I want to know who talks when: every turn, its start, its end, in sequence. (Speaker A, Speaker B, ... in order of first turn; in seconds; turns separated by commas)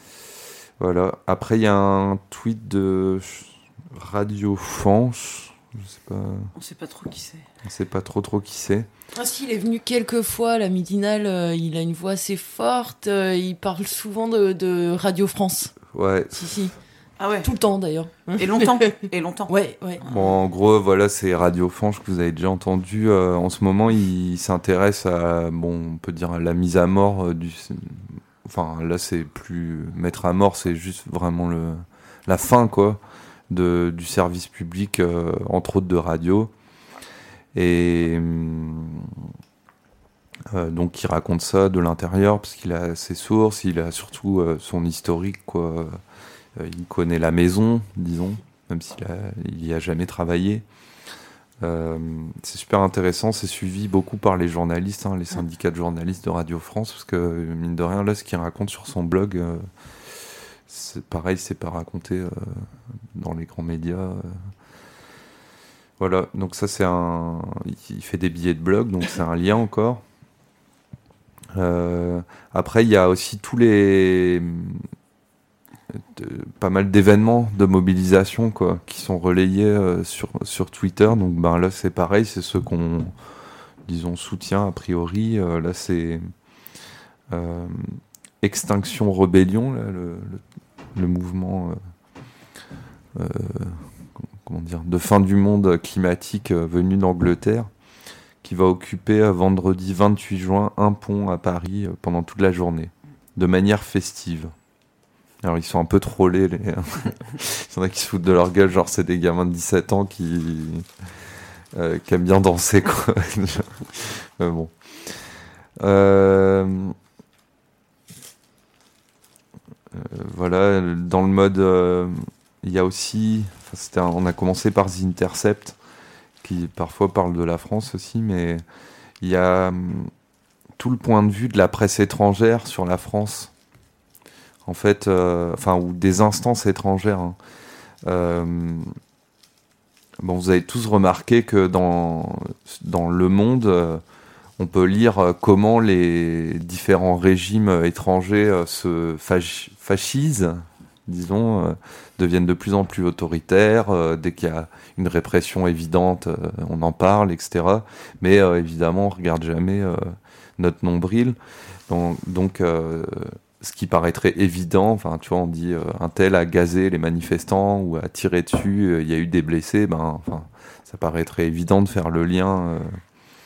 Speaker A: 0.8-6.5, Speaker B: 6.6-7.5, Speaker A: 7.6-8.9, Speaker C: 9.2-15.8, Speaker A: 15.9-16.6, Speaker C: 16.3-16.7, Speaker B: 17.2-17.5, Speaker C: 17.4-18.9, Speaker B: 18.4-19.5, Speaker C: 19.5-20.0, Speaker A: 20.0-36.5, Speaker A: 37.5-39.2, Speaker A: 40.5-46.0, Speaker A: 46.6-50.6, Speaker A: 51.6-64.5, Speaker A: 66.0-70.0, Speaker A: 71.5-74.9, Speaker A: 75.9-83.1, Speaker A: 83.9-86.3, Speaker A: 87.3-90.4, Speaker A: 91.0-91.8, Speaker A: 93.2-93.9, Speaker A: 94.4-97.7, Speaker A: 98.4-104.5, Speaker A: 105.4-110.9, Speaker A: 111.7-117.0, Speaker A: 119.9-125.8, Speaker A: 126.4-128.6, Speaker A: 129.2-130.1, Speaker A: 130.8-133.5, Speaker A: 134.7-137.4, Speaker A: 138.1-138.9, Speaker A: 140.2-144.0, Speaker A: 144.6-161.4, Speaker A: 161.9-173.0